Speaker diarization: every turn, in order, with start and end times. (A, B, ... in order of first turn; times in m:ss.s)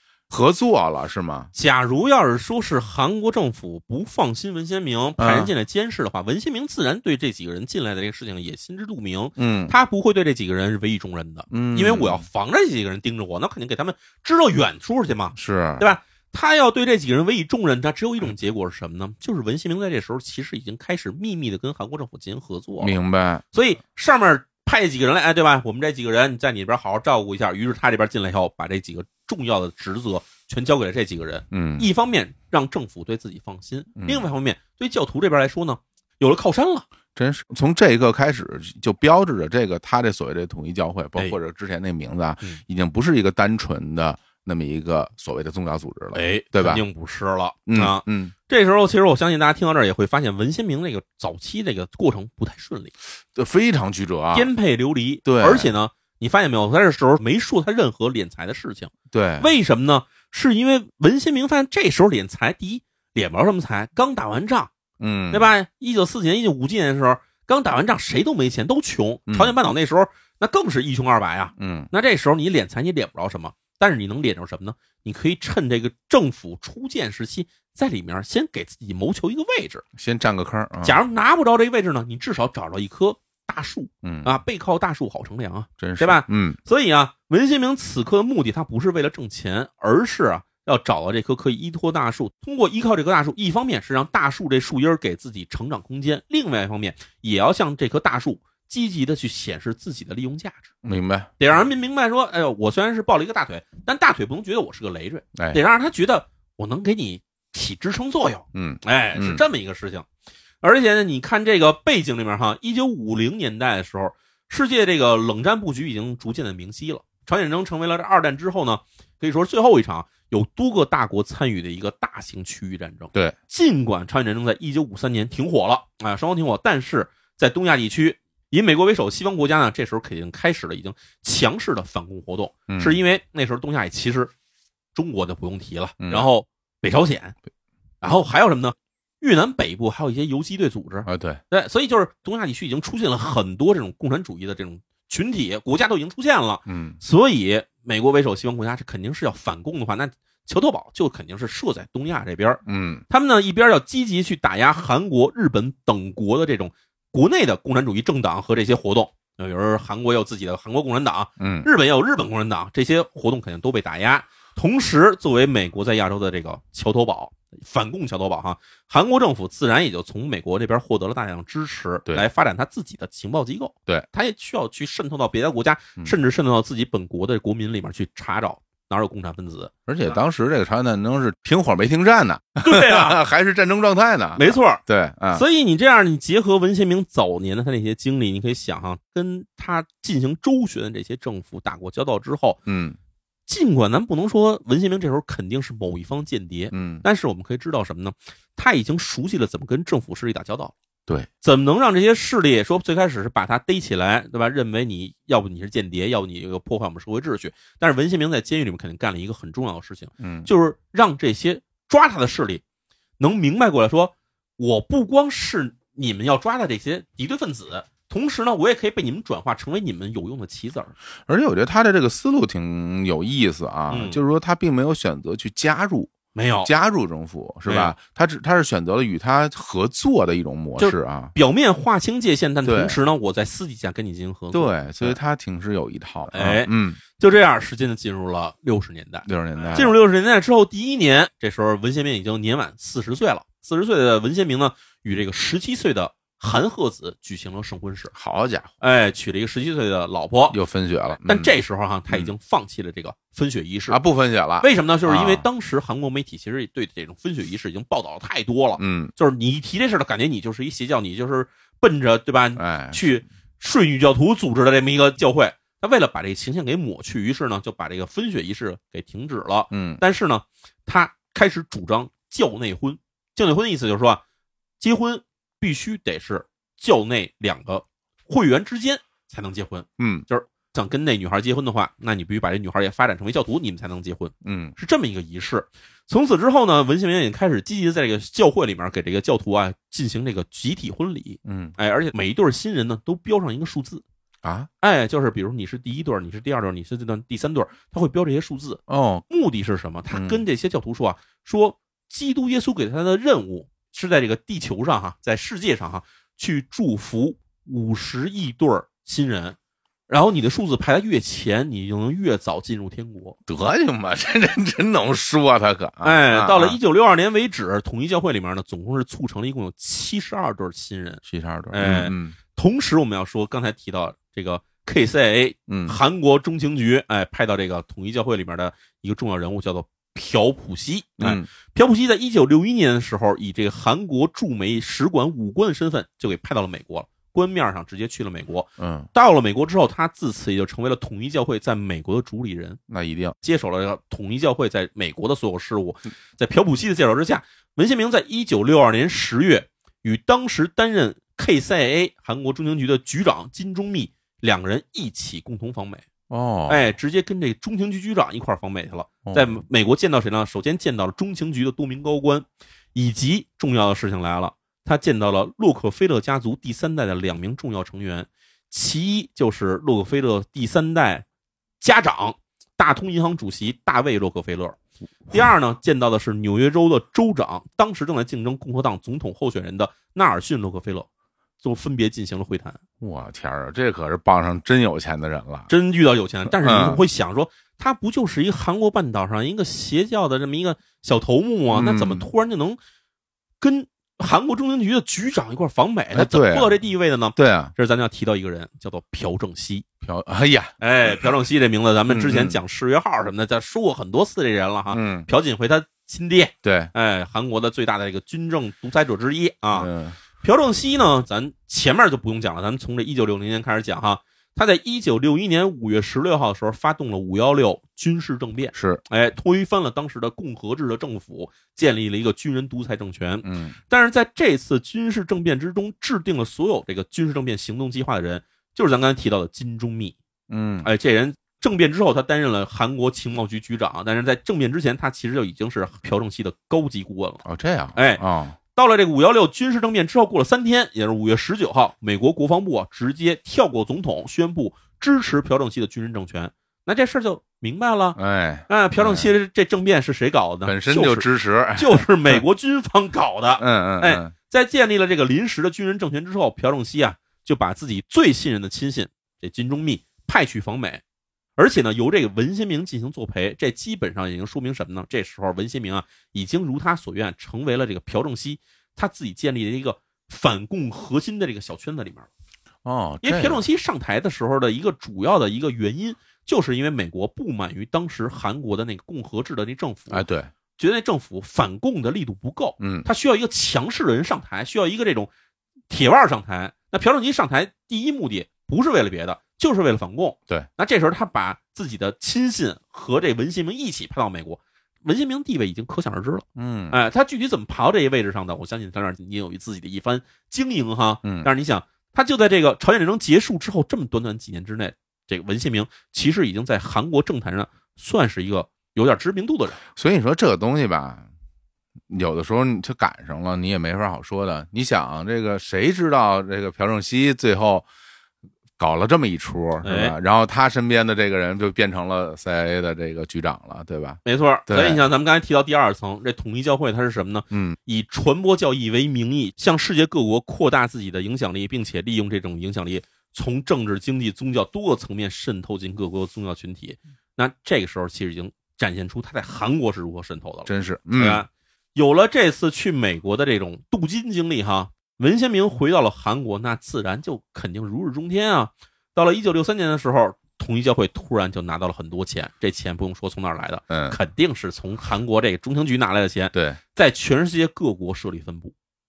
0:00.3-0:01.5 A
0:01.5-0:22.9 B
0:05.2-0:05.5 A
0:09.4-0:09.7 A
0:11.5-0:12.2 A
0:15.4-0:15.9 A
0:22.8-0:23.4 A
0:23.5-0:36.9 B
0:31.5-0:31.9 A
0:34.0-0:34.3 A
0:37.2-0:46.8 A
0:46.1-0:52.9 B
0:47.7-0:48.3 A
0:53.3-0:54.5 A
0:54.3-1:04.7 B
0:55.3-0:55.7 A
0:59.1-0:59.5 A
1:05.0-1:05.5 A
1:05.3-1:19.8 B
1:09.3-1:09.6 A
1:11.6-1:11.9 A
1:20.0-1:21.0 A
1:20.8-1:40.7 B
1:24.0-1:24.3 A
1:25.8-1:26.6 A
1:40.8-1:41.3 A
1:41.4-1:50.1 B
1:48.5-1:49.4 A
1:50.6-2:14.3 B
2:12.7-2:13.0 A
2:15.0-2:17.4 B
2:16.0-2:16.3 A
2:18.0-2:59.7 B
2:21.1-2:21.4 A
2:26.7-2:27.0 A
2:32.7-2:33.0 A
2:41.4-2:41.7 A
2:59.9-3:05.4 A
3:02.6-3:03.2 B
3:04.4-3:12.6 B
3:12.7-3:13.0 A
3:13.5-3:20.7 B
3:16.7-3:17.0 A
3:21.4-3:32.6 B
3:30.2-3:30.5 A
3:33.2-3:40.9 B
3:41.3-3:51.3 A
3:43.9-3:44.2 B
3:46.4-3:46.7 B
3:47.7-3:48.0 B
3:50.8-3:55.2 B
3:52.6-3:53.0 A
3:54.5-3:57.0 A
3:56.3-4:08.1 B
3:59.3-4:00.0 A
4:08.1-4:08.7 A
4:08.8-4:10.6 B
4:10.5-4:11.5 A
4:11.2-4:14.0 B
4:13.9-4:15.5 A
4:14.6-4:34.2 B
4:18.8-4:19.1 A
4:22.6-4:23.1 A
4:29.7-4:30.0 A
4:34.8-4:54.0 B
4:40.0-4:40.3 A
4:44.4-4:44.8 A
4:51.4-4:51.7 A
4:54.4-4:54.7 A
4:54.8-5:09.6 B
4:58.9-4:59.2 A
5:00.1-5:00.4 A
5:10.1-5:13.4 B
5:13.5-5:16.8 A
5:16.0-5:42.8 B
5:21.2-5:22.4 A
5:25.7-5:26.0 A
5:31.2-5:31.5 A
5:38.8-5:39.1 A
5:42.9-5:43.4 A
5:43.4-5:56.1 B
5:56.3-5:56.9 A
5:56.7-6:11.2 B
5:59.2-5:59.6 A
6:11.8-6:14.8 B
6:15.3-6:21.1 B
6:21.6-6:22.8 B
6:23.0-6:25.7 A
6:25.7-6:32.8 B
6:26.6-6:27.0 A
6:31.7-6:32.3 A
6:33.6-6:39.9 B
6:36.1-6:36.7 A
6:37.4-6:37.7 A
6:40.0-6:41.3 A
6:40.8-7:10.2 B
6:42.1-6:42.6 A
6:44.9-6:45.3 A
6:46.6-6:46.9 A
6:49.8-6:50.2 A
6:58.7-6:59.0 A
7:03.4-7:03.8 A
7:10.5-7:10.9 A
7:10.8-7:17.4 B
7:17.4-7:18.6 A
7:18.0-7:41.0 B
7:28.2-7:29.3 A
7:30.7-7:32.4 A
7:33.6-7:34.3 A
7:41.6-7:52.3 B
7:52.8-7:53.6 A
7:53.2-8:00.2 B
8:00.1-8:00.5 A
8:00.8-8:05.3 B
8:02.8-8:03.1 A
8:05.9-8:29.8 B
8:16.6-8:17.0 A
8:21.2-8:21.5 A
8:29.9-8:31.2 A
8:32.1-8:37.9 A
8:38.8-8:45.0 A
8:39.8-8:40.2 B
8:44.2-9:18.7 B
8:47.5-8:47.8 A
9:00.7-9:01.4 A
9:13.9-9:14.2 A
9:16.5-9:16.8 A